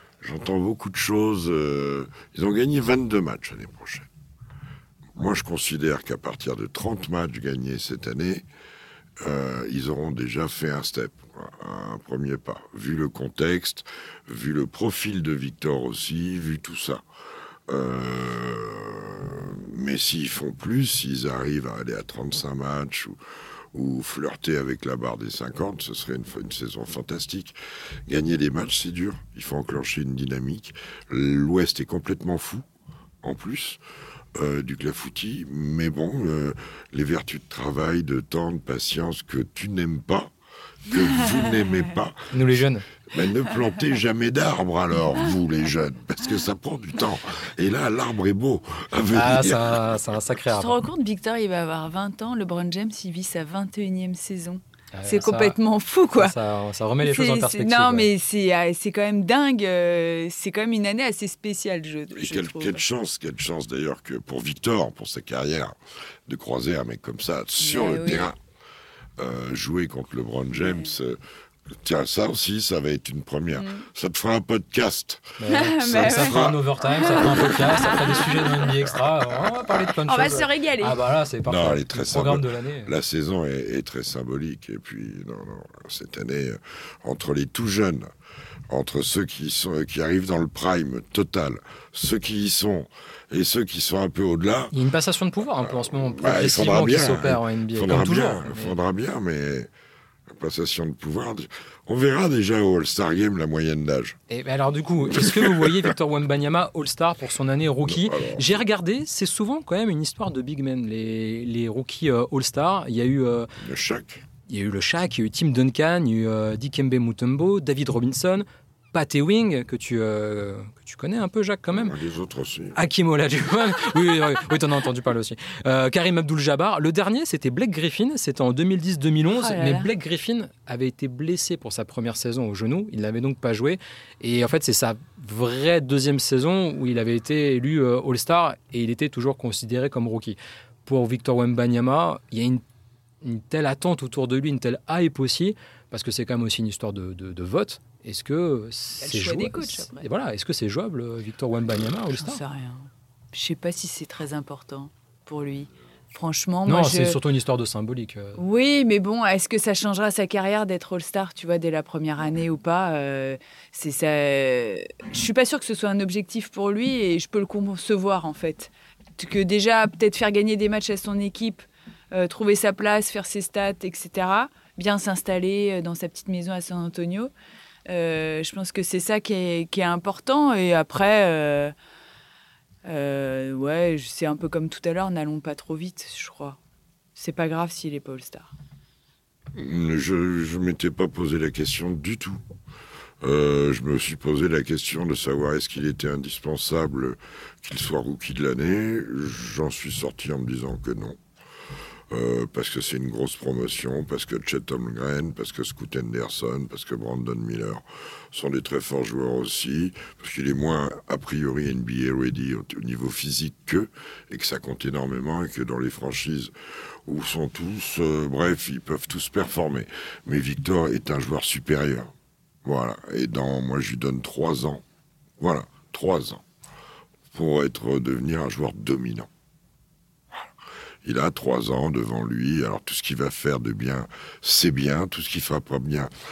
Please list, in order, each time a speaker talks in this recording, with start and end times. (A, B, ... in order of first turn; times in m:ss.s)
0:00.2-0:04.1 A
0:05.2-0:08.4 A
0:09.2-0:17.0 A
0:17.7-0:23.2 A
0:23.7-0:27.6 A
0:28.1-0:32.7 A
0:33.2-0:33.8 A
0:34.4-0:40.3 A
0:40.9-0:42.5 A
0:42.3-0:42.9 B
0:43.1-0:49.9 A
0:49.1-0:50.8 B
0:50.5-0:56.4 C
0:54.9-0:55.6 B
0:56.2-0:58.1 B
0:57.0-1:02.8 C
1:02.2-1:08.4 A
1:07.6-1:08.3 C
1:09.2-1:19.9 A
1:10.6-1:10.9 C
1:13.6-1:13.9 C
1:15.4-1:22.9 B
1:15.5-1:18.6 C
1:20.1-1:21.0 C
1:21.5-1:28.1 A
1:28.7-1:34.7 A
1:34.7-1:38.8 B
1:35.7-1:39.7 A
1:40.3-1:44.2 A
1:44.3-1:53.5 B
1:45.1-1:45.9 A
1:47.8-1:48.6 A
1:53.6-1:54.2 A
1:54.5-2:01.9 B
2:01.7-2:02.8 A
2:02.8-2:22.6 B
2:09.3-2:09.9 C
2:23.2-2:32.4 B
2:29.0-2:30.1 C
2:32.1-2:37.2 C
2:36.7-2:38.4 B
2:38.4-2:57.3 C
2:57.9-3:01.7 C
3:02.8-3:06.6 C
3:07.2-3:08.5 C
3:09.6-3:12.4 A
3:13.2-3:21.2 A
3:22.1-3:36.5 A
3:37.1-3:42.1 A
3:42.6-3:44.8 A
3:45.4-3:46.4 A
3:47.3-3:49.3 A
3:51.0-3:56.1 A